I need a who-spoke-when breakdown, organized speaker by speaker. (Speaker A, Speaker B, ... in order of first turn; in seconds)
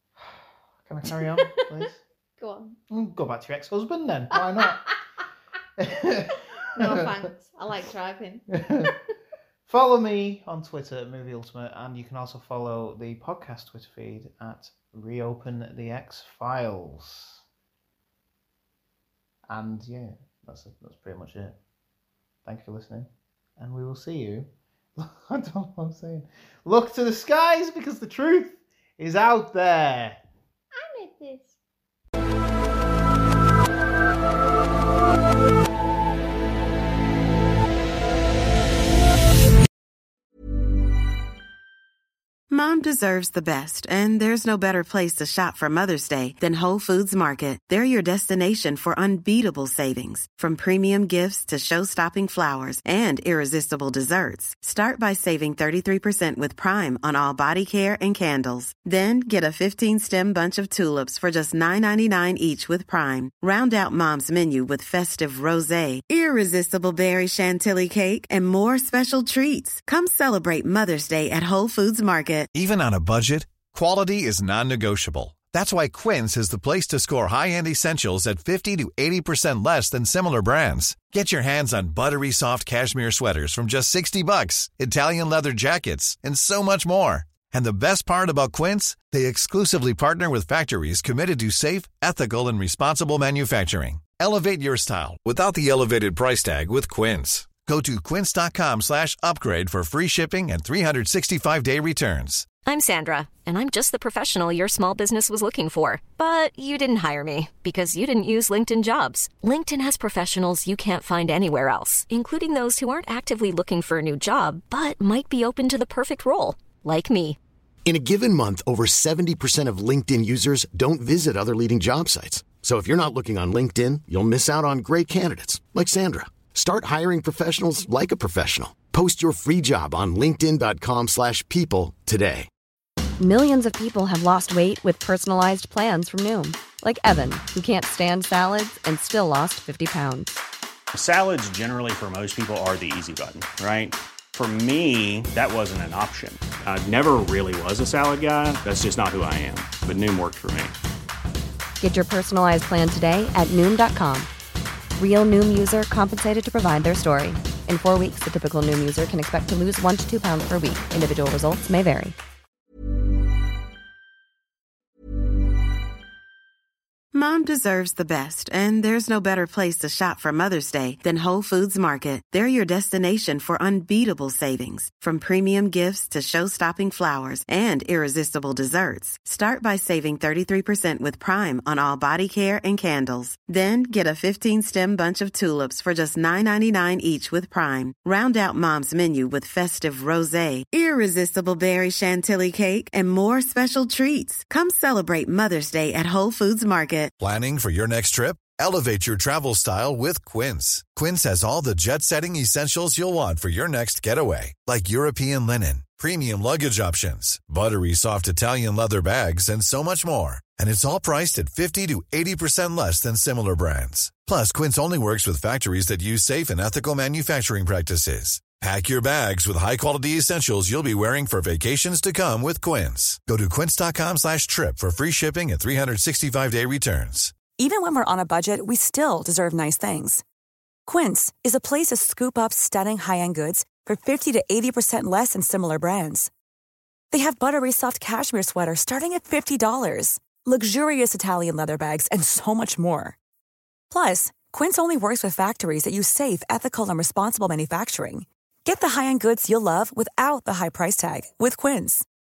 Speaker A: 0.2-2.0, 2.9-4.8, 5.8-7.1, 8.5-8.9, 9.7-17.4, 19.5-21.6, 22.4-30.2
Speaker B: 1.1-2.8, 4.3-4.9, 6.7-9.1, 30.7-31.6
Speaker C: 42.5-72.5, 167.1-197.1
Speaker D: 72.5-102.5, 197.2-227.3
Speaker E: 102.6-117.4
Speaker F: 117.8-132.5
Speaker G: 133.2-140.3, 151.8-154.3, 155.0-162.2
Speaker H: 140.9-150.8
Speaker I: 227.6-230.2, 230.9-236.3, 237.1-243.2, 243.9-252.0